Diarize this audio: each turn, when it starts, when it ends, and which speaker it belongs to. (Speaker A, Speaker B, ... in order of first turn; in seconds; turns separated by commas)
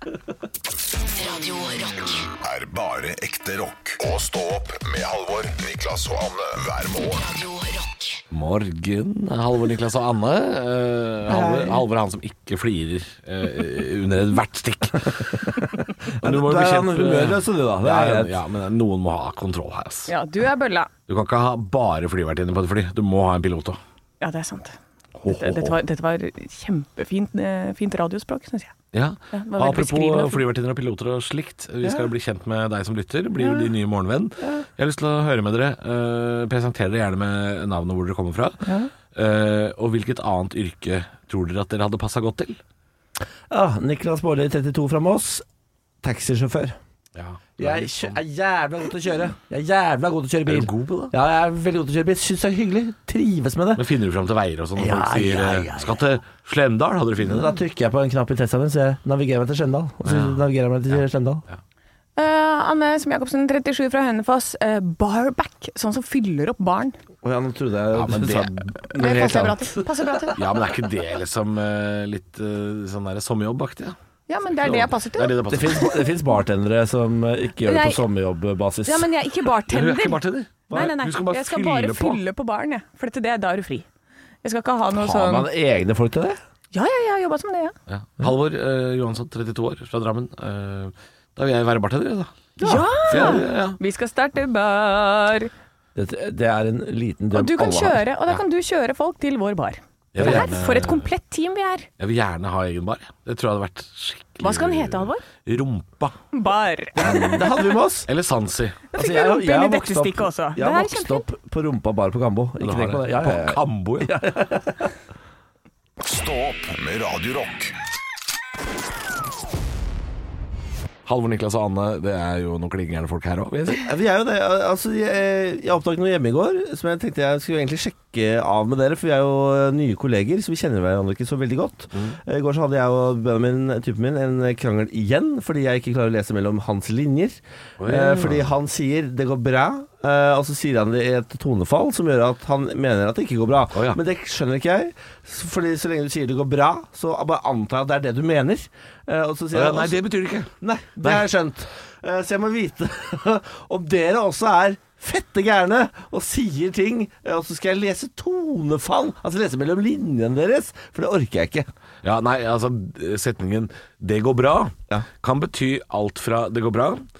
Speaker A: 1.1-2.3, Speaker B: 2.4-7.3, Speaker A: 7.2-8.2, Speaker C: 8.3-15.6, Speaker D: 11.3-11.8, Speaker C: 16.2-20.1, Speaker D: 16.2-18.3, Speaker E: 20.1-20.9, Speaker C: 21.1-23.8, Speaker E: 24.2-28.7, Speaker C: 25.2-25.7, Speaker C: 28.9-42.6, Speaker E: 29.3-30.4, Speaker D: 43.5-45.4, Speaker D: 46.0-46.8, Speaker C: 47.1-48.2, Speaker D: 47.6-53.8, Speaker C: 50.5-51.1, Speaker C: 53.8-57.5, Speaker D: 54.8-56.0, Speaker D: 57.2-61.4, Speaker C: 60.0-60.4, Speaker E: 62.1-67.0, Speaker D: 67.2-70.1, Speaker C: 67.9-69.0, Speaker E: 68.9-70.4, Speaker C: 70.3-74.0, Speaker E: 74.3-75.9, Speaker C: 74.6-76.0, Speaker D: 75.5-79.1, Speaker E: 77.6-78.0, Speaker E: 78.8-83.9, Speaker C: 79.7-82.2, Speaker E: 84.4-85.5, Speaker D: 84.9-86.4, Speaker E: 86.7-87.7, Speaker C: 87.9-92.3, Speaker D: 92.6-93.4, Speaker E: 92.6-95.5, Speaker C: 93.1-93.8, Speaker D: 95.9-98.0, Speaker E: 97.3-101.9, Speaker C: 100.1-101.1, Speaker D: 100.2-100.5, Speaker C: 102.0-106.2, Speaker E: 104.4-105.2, Speaker E: 106.3-107.4, Speaker D: 107.0-108.1, Speaker C: 108.0-108.8, Speaker E: 108.9-111.2, Speaker D: 109.0-114.9, Speaker C: 112.6-114.2, Speaker B: 116.0-117.7, Speaker C: 121.0-123.9, Speaker D: 123.8-150.0, Speaker C: 137.8-138.5, Speaker C: 143.7-144.0, Speaker C: 149.5-150.5, Speaker D: 150.6-161.7, Speaker C: 162.0-167.1